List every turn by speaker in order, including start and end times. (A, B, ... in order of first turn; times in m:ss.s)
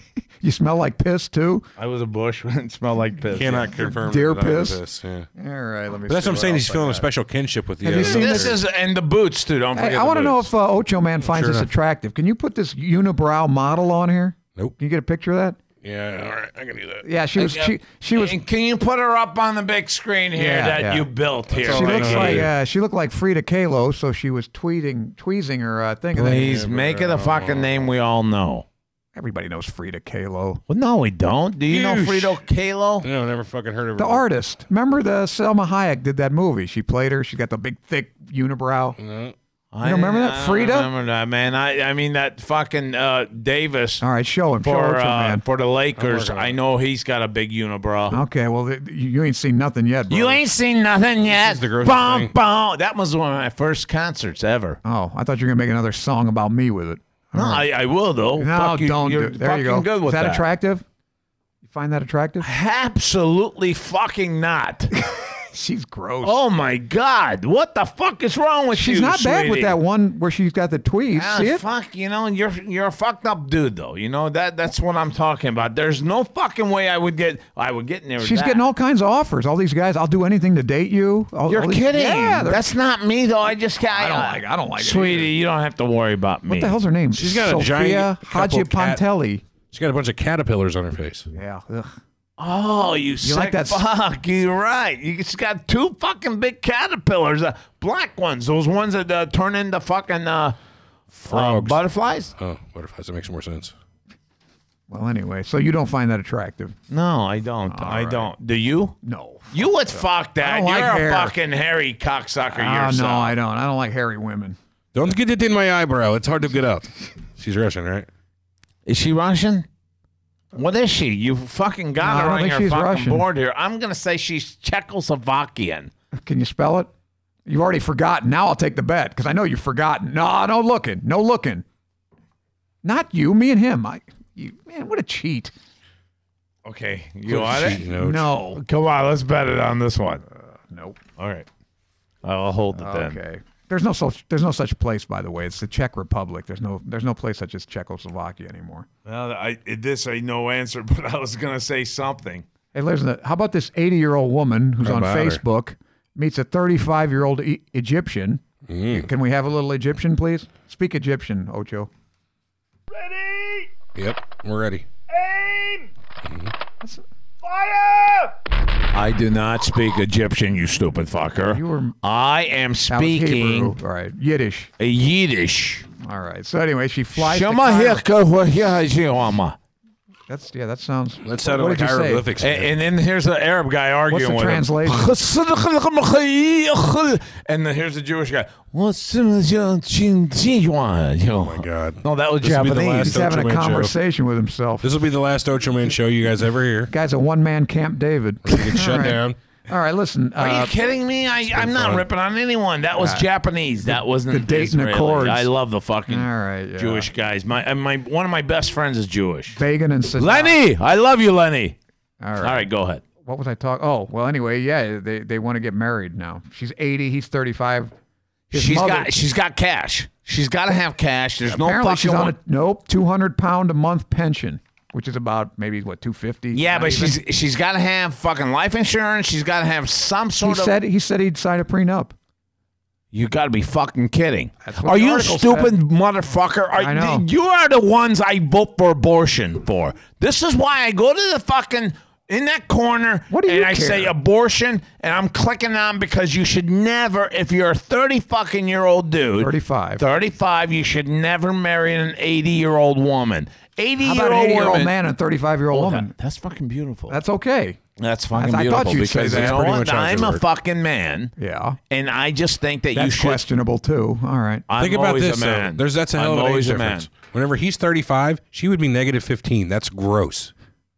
0:00.4-0:01.6 A
0:01.8-0:03.7 B
0:03.3-0:05.3 C
0:03.7-0:04.8 A
0:05.4-0:07.1 A
0:06.1-0:08.6 C
0:07.8-0:08.6 A
0:07.9-0:10.5 B
0:09.7-0:15.6 A
0:11.2-0:11.7 C
0:15.8-0:17.0 C
0:17.0-0:18.4 A
0:17.4-0:22.5 B
0:20.3-0:21.1 A
0:21.5-0:22.5 C
0:21.6-0:26.6 A
0:26.2-0:28.6 B
0:26.2-0:27.8 C
0:29.1-0:30.6 A
0:30.7-0:33.1 B
0:31.7-0:32.4 C
0:33.0-0:34.2 C
0:34.0-0:39.0 A
0:39.0-0:39.3 C
0:39.7-0:44.0 B
0:39.8-0:40.9 A
0:44.0-0:45.4 A
0:44.6-0:48.2 B
0:46.0-0:46.6 C
0:48.1-0:50.4 A
0:50.1-0:54.8 B
0:51.2-0:52.3 C
0:54.8-0:57.6 A
0:57.3-1:00.5 B
0:58.4-1:00.8 A
1:01.6-1:02.5 A
1:02.4-1:04.9 B
1:05.0-1:06.4 A
1:06.2-1:09.8 B
1:08.7-1:11.6 A
1:11.1-1:18.6 B
1:18.2-1:22.7 A
1:21.5-1:26.8 B
1:23.9-1:25.3 A
1:26.5-1:29.4 A
1:27.1-1:29.0 C
1:29.7-1:31.3 C
1:31.3-1:32.0 A
1:32.4-1:40.6 B
1:33.2-1:33.8 A
1:41.1-1:41.8 C
1:41.3-1:42.3 B
1:42.4-1:43.7 C
1:44.9-1:46.8 A
1:46.9-1:48.9 B
1:47.7-1:48.3 A
1:49.0-1:51.3 A
1:49.5-1:53.4 B
1:52.5-1:54.6 A
1:54.9-1:58.1 C
1:58.8-1:59.6 B
2:00.5-2:05.9 B
2:02.0-2:03.3 A
2:06.1-2:06.9 A
2:07.4-2:11.6 A
2:12.8-2:15.5 A
2:16.6-2:17.8 B
2:17.2-2:18.3 C
2:17.8-2:18.6 A
2:18.5-2:20.2 B
2:20.3-2:21.0 A
2:21.2-2:21.5 B
2:22.2-2:23.2 B
2:22.7-2:28.9 A
2:29.0-2:32.4 B
2:32.7-2:41.9 A
2:34.8-2:35.4 C
2:38.7-2:39.1 C
2:43.9-2:44.8 C
2:46.2-2:46.5 C
2:48.9-2:53.8 B
2:51.4-2:52.0 A
2:52.9-2:54.7 A
2:54.8-2:55.9 B
2:56.0-2:58.0 A
2:57.1-2:59.6 B
3:00.3-3:02.3 A
3:01.2-3:02.7 C
3:02.4-3:13.2 B
3:04.1-3:05.1 A
3:11.3-3:13.9 C
3:13.0-3:14.9 A
3:14.8-3:16.9 C
3:16.9-3:20.7 A
3:18.4-3:19.4 C
3:20.4-3:29.6 B
3:21.5-3:22.0 C
3:23.0-3:23.3 A
3:23.8-3:25.5 A
3:26.1-3:27.1 A
3:29.5-3:30.6 A
3:30.2-3:31.8 B
3:32.2-3:32.7 A
3:32.4-3:33.0 B
3:33.2-3:37.9 A
3:38.5-3:39.1 A
3:38.5-3:42.3 B
3:41.4-3:47.2 A
3:46.5-3:50.7 B
3:50.4-3:52.1 A
3:53.1-4:14.9 B
3:54.6-3:55.8 A
3:56.7-3:57.2 A
4:03.3-4:04.1 A
4:09.4-4:10.0 A
4:14.0-4:16.1 A
4:15.7-4:17.2 B
4:17.1-4:17.8 A
4:18.0-4:21.3 B
4:18.3-4:19.6 A
4:18.9-4:20.4 C
4:21.4-4:21.8 A
4:21.9-4:23.4 B
4:22.9-4:24.6 A
4:24.7-4:27.1 B
4:24.8-4:30.5 C